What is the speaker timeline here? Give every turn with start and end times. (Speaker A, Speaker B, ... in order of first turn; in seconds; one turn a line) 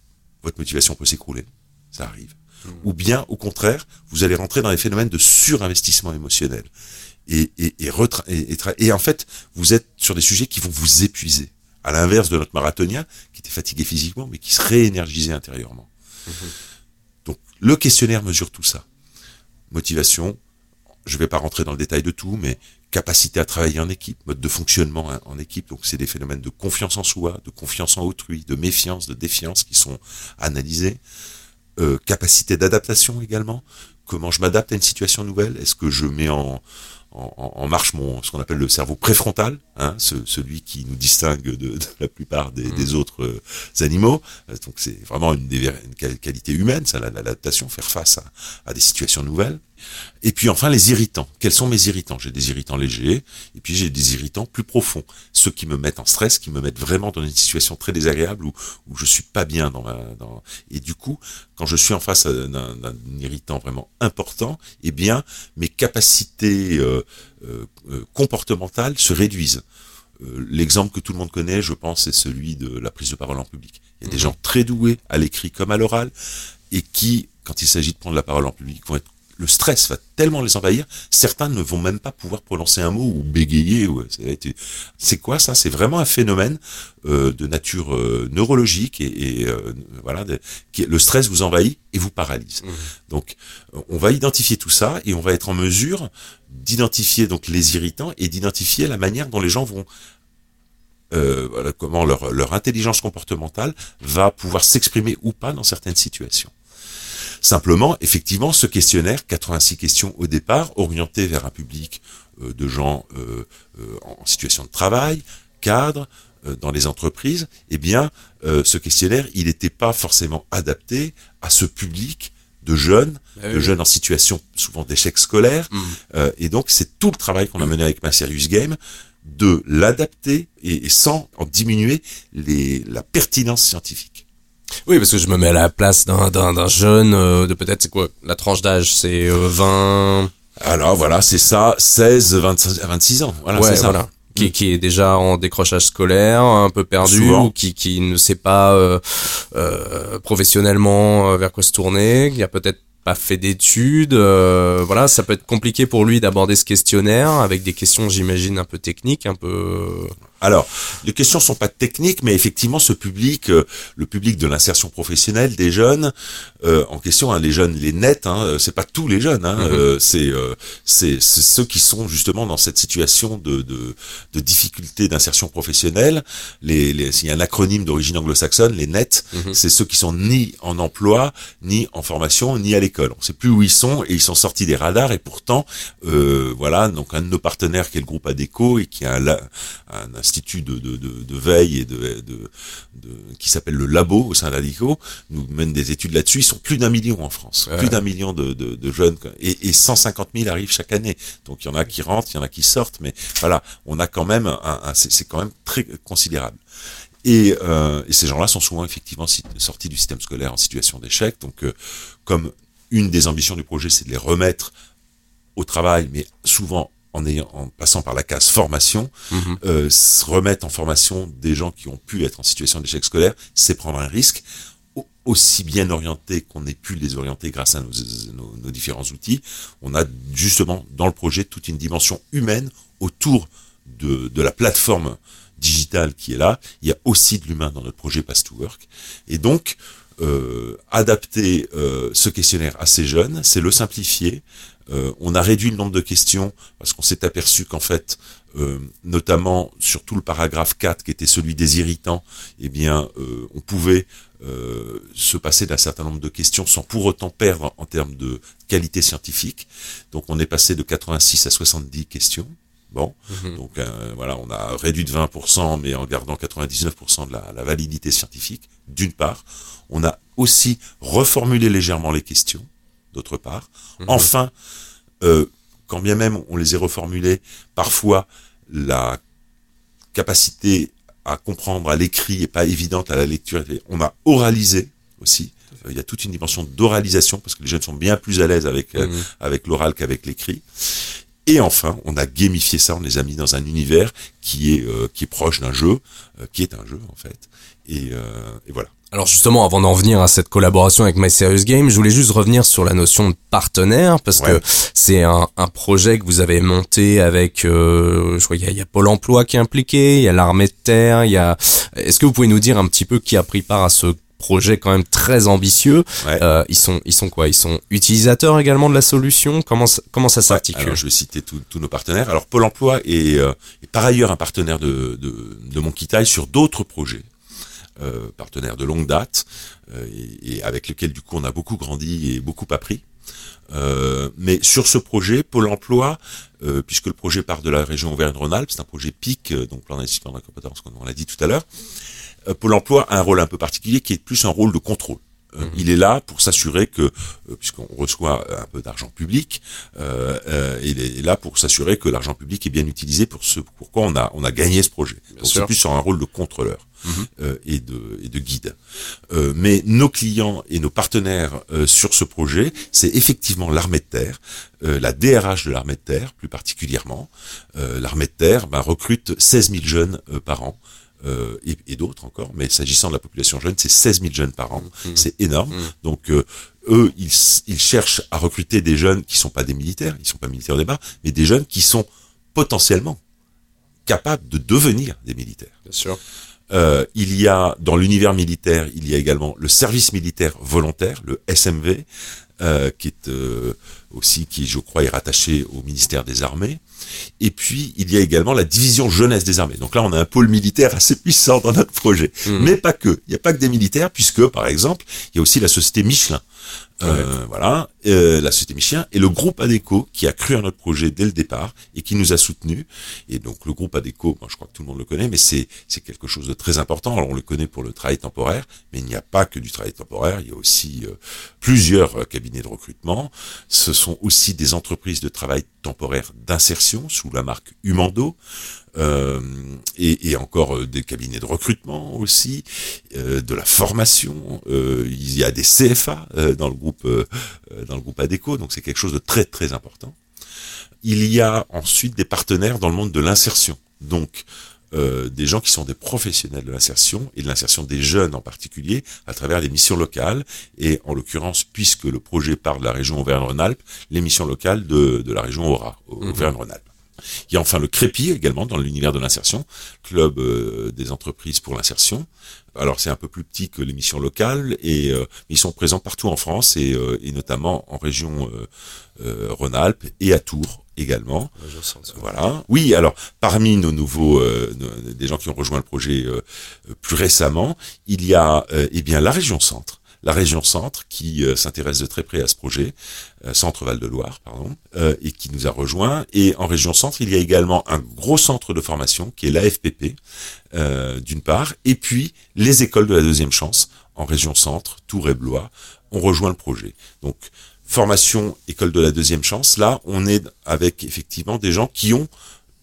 Speaker A: 0.4-6.7
Speaker A: 7.3-15.9
Speaker A: 17.2-18.8
Speaker A: 19.7-20.4
Speaker A: 21.0-31.0
Speaker A: 31.8-49.6
Speaker A: 50.2-69.6
Speaker A: 70.2-76.1
Speaker A: 76.7-99.9
Speaker B: 92.6-92.9
Speaker A: 101.1-106.5
Speaker A: 107.4-134.2
Speaker B: 123.4-123.7
Speaker B: 125.7-126.0
Speaker B: 134.9-140.3
Speaker A: 140.6-144.4
Speaker B: 143.5-160.1
Speaker A: 147.0-147.5
Speaker A: 160.4-206.6
Speaker B: 169.6-169.8
Speaker B: 197.7-198.0
Speaker A: 207.2-211.7
Speaker A: 212.2-214.7
Speaker A: 215.6-224.4
Speaker B: 219.3-219.6
Speaker A: 224.9-274.5
Speaker B: 263.3-263.6
Speaker B: 274.0-274.3
Speaker A: 275.2-279.2
Speaker A: 280.1-298.9
Speaker B: 289.0-289.2
Speaker B: 299.1-321.0
Speaker A: 304.4-304.6
Speaker A: 320.5-327.3
Speaker A: 328.0-333.0
Speaker A: 333.7-341.7
Speaker A: 342.4-358.8
Speaker B: 355.4-355.7
Speaker A: 359.3-383.2
Speaker B: 374.9-375.9
Speaker A: 384.1-385.7
Speaker B: 385.9-386.2
Speaker A: 386.7-392.1
Speaker A: 392.6-396.8
Speaker A: 397.4-406.4
Speaker B: 402.5-402.7
Speaker A: 407.0-428.4
Speaker A: 428.9-440.2
Speaker A: 441.0-456.9
Speaker B: 456.2-456.5
Speaker A: 457.5-471.5
Speaker B: 471.6-472.2
Speaker A: 472.1-490.2
Speaker A: 490.7-502.3